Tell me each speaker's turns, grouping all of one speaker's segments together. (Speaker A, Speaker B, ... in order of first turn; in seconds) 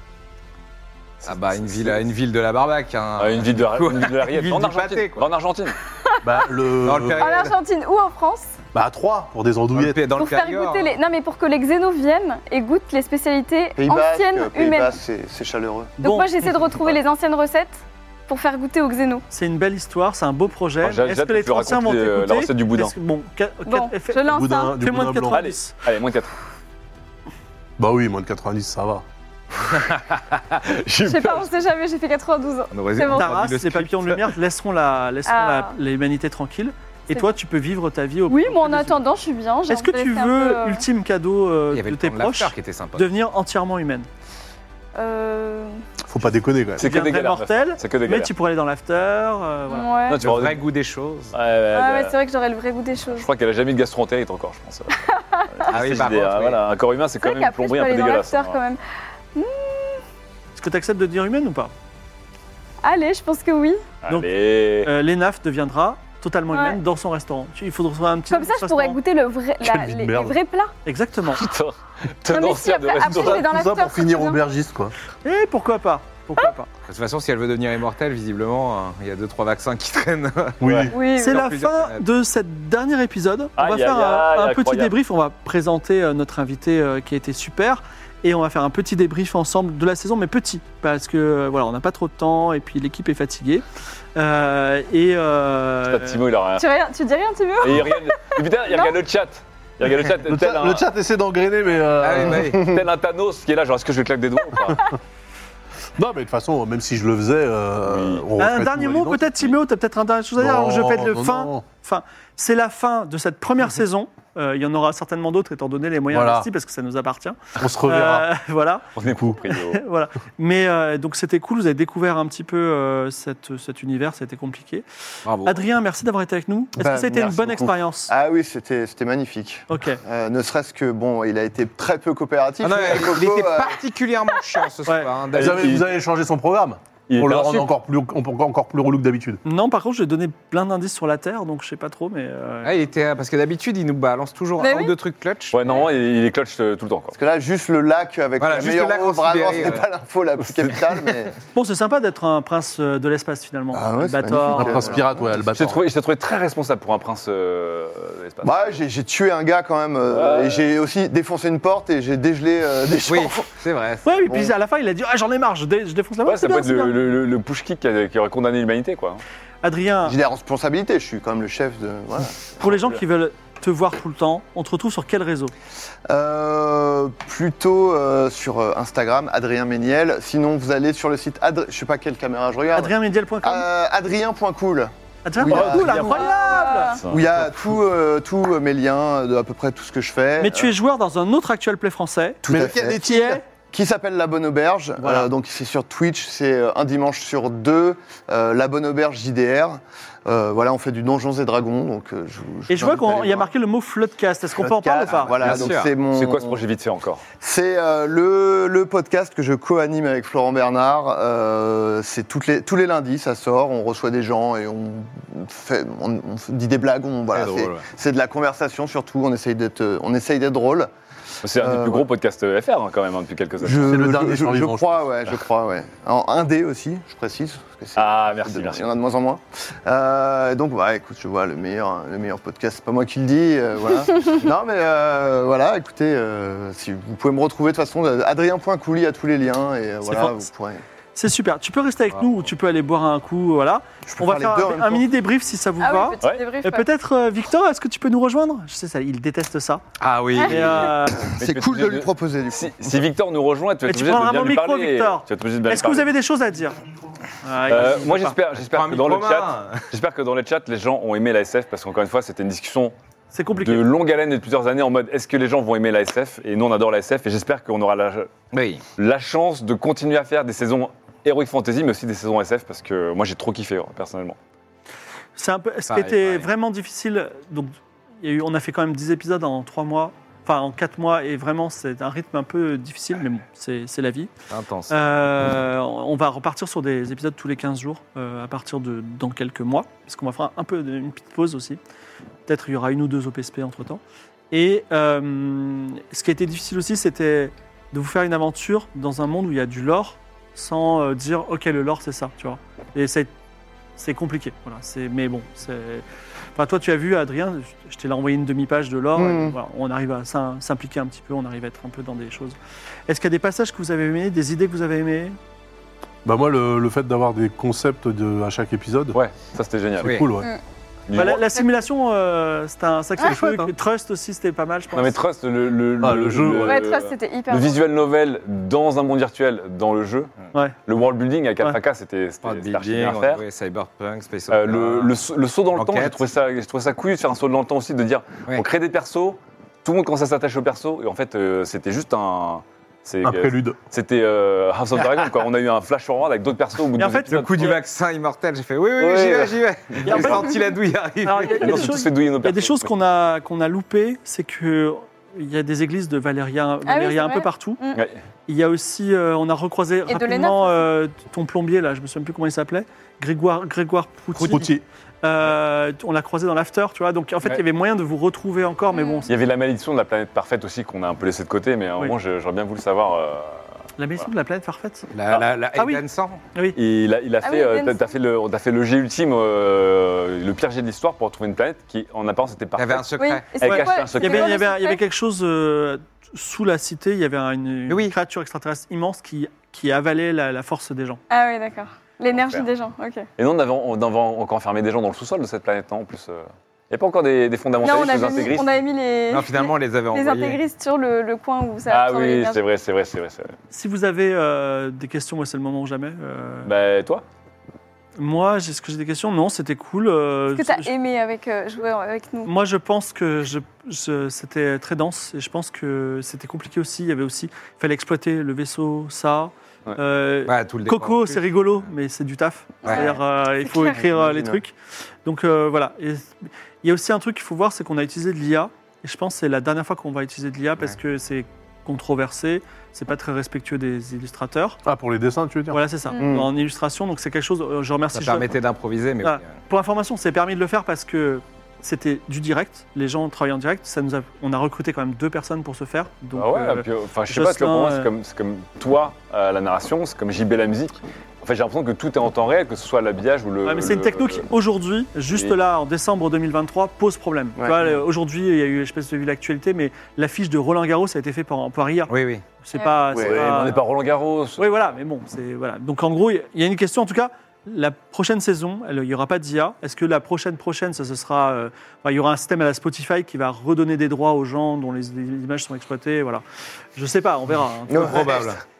Speaker A: 1.2-2.0, 3.2-5.8, 20.8-22.9, 25.3-26.3, 30.6-31.6, 46.8-48.3, 50.1-50.6, 51.3-52.1, 53.1-58.6, 64.0-64.9, 71.3-73.4, 83.6-84.9, 95.9-96.7, 97.6-100.8, 102.6-104.9, 107.8-108.2, 118.9-119.8, 135.3-135.9, 137.1-137.7, 145.5-147.2, 155.5-158.8, 160.1-160.6, 166.2-169.2, 185.5-187.3, 206.1-207.2, 221.4-223.9, 227.9-228.9, 251.3-256.1, 257.7-262.9, 263.6-268.3, 269.0-274.4, 319.1-320.2, 321.1-321.4, 324.9-330.3, 330.9-333.4, 334.5-347.8, 349.0-350.5, 351.4-352.9, 369.3-373.6, 376.7-384.6, 392.3-392.7, 393.4-398.7, 401.9-403.5, 406.6-407.2, 446.3-454.4, 463.2-464.9
Speaker B: 1.2-5.3, 6.8-7.5, 9.7-10.9, 29.9-30.2, 32.7-34.3, 41.7-43.1, 50.2-51.3, 55.7-56.6, 76.9-82.0, 102.0-102.8, 125.2-125.6, 132.6-135.7, 142.6-145.6, 148.4-149.9, 163.1-164.3, 205.1-205.9, 217.3-217.8, 250.0-251.0, 258.7-259.9, 268.5-268.8, 275.9-276.5, 284.5-285.0, 320.0-320.4, 332.4-335.2, 335.7-336.3, 347.2-351.9, 375.1-376.4, 382.8-383.6, 387.9-388.1, 399.3-400.6, 420.5-421.5, 438.1-439.6, 462.1-462.4, 478.0-478.6
Speaker C: 6.0-6.5, 7.2-8.5, 10.2-14.9, 16.0-19.2, 23.6-24.8, 31.0-33.4, 35.2-35.7, 38.3-40.8, 45.0-45.8, 49.7-50.2, 51.7-53.3, 54.9-55.7, 57.2-58.8, 59.3-60.0, 62.8-63.9, 66.5-66.8, 68.3-70.7, 72.3-74.4, 80.9-81.4, 96.5-98.0, 98.7-98.9, 144.6-144.9, 186.0-187.0, 245.8-246.9, 250.3-250.6, 323.2-323.6, 326.6-327.8, 356.8-358.0, 360.1-360.9, 368.9-369.3, 377.4-378.1, 383.2-385.0, 391.3-393.3, 397.8-402.6, 410.5-412.5, 422.8-423.2
Speaker D: 6.2-7.3, 8.7-10.0, 24.3-25.4, 27.8-29.0, 46.1-46.9, 69.6-70.4, 73.2-74.9, 80.6-80.9, 100.1-102.6, 106.0-109.4, 110.4-111.6, 116.1-116.5, 117.6-118.3, 135.3-139.4, 154.5-155.8, 192.5-193.4, 223.7-225.0, 316.2-319.2, 320.0-320.5, 326.0-326.8, 343.2-343.8, 364.3-364.8, 434.8-435.8
Speaker E: 13.8-16.0, 102.4-102.8, 126.8-133.8, 147.2-151.3, 153.7-155.4, 158.4-163.5, 170.0-172.8, 176.1-186.2, 187.1-190.7, 192.4-203.5, 204.6-206.6, 207.4-220.9, 221.6-222.1, 223.6-240.8, 244.1-245.0, 251.2-253.0, 309.1-309.5, 424.0-424.6, 436.2-436.5, 457.6-457.9, 463.1-463.7, 477.9-478.6
Speaker F: 16.0-16.3, 19.3-25.7, 33.1-39.0, 39.7-44.1, 46.8-49.9, 60.5-61.7, 64.8-69.0, 70.8-71.4, 75.2-76.7, 81.1-93.6, 94.2-96.2, 108.4-118.9, 119.5-124.8, 125.4-128.1, 129.7-130.0, 139.4-142.8, 151.5-154.9, 164.0-167.0, 169.6-170.2, 172.6-175.5, 182.7-183.7, 185.2-187.0, 190.4-192.4, 192.9-193.4, 195.0-195.3, 202.7-205.3, 240.0-240.5, 241.2-249.8, 250.4-251.3, 253.9-256.8, 257.4-258.4, 263.3-263.9, 275.4-284.3, 284.9-291.8, 292.4-294.0, 294.5-303.3, 304.0-306.0, 306.6-312.6, 313.1-315.4, 321.1-325.2, 347.0-347.7, 350.0-350.6, 351.2-357.8, 358.5-364.7, 365.2-369.3, 374.0-375.1, 375.8-376.0, 383.6-391.2, 403.7-406.7, 408.2-410.9, 412.4-424.7, 425.2-434.8, 435.7-438.5, 439.2-448.1, 453.6-463.8, 464.6-476.4, 476.9-478.3